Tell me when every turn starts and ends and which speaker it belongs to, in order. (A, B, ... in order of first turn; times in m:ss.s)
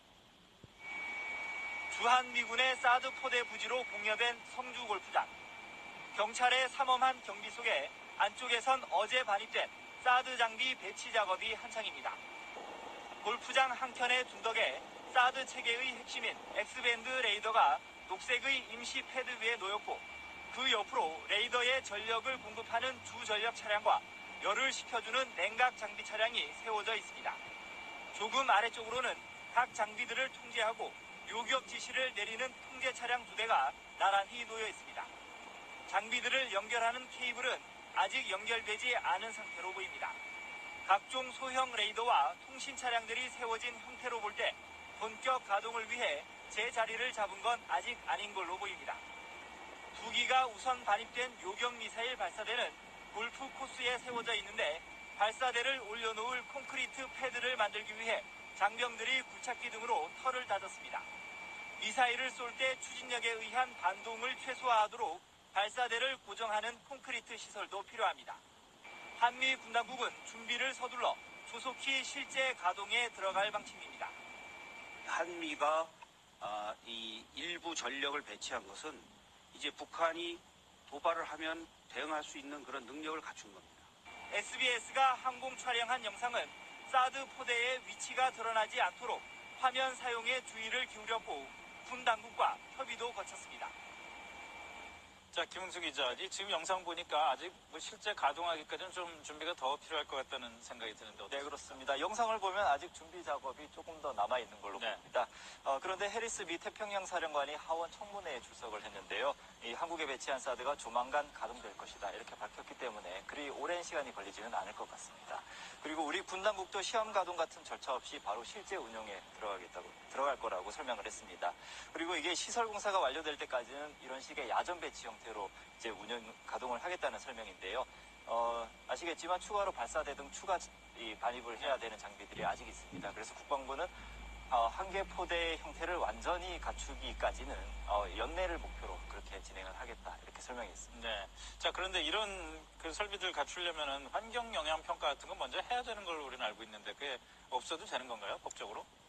0:01.9-0:05.3 A
0:06.1-0:12.2 A
0:13.2-0:27.4 A
0:28.1-0:35.1 A
0:35.9-0:40.2 A
0:40.8-0:49.0 A
0:49.9-1:01.1 A
1:01.8-1:08.4 A
1:09.2-1:14.1 A
1:15.0-1:23.9 B
1:24.3-1:33.7 A
1:35.3-1:41.8 C
1:41.3-2:13.9 D
1:44.8-1:45.0 C
2:14.5-2:20.9 D
2:20.9-2:28.9 C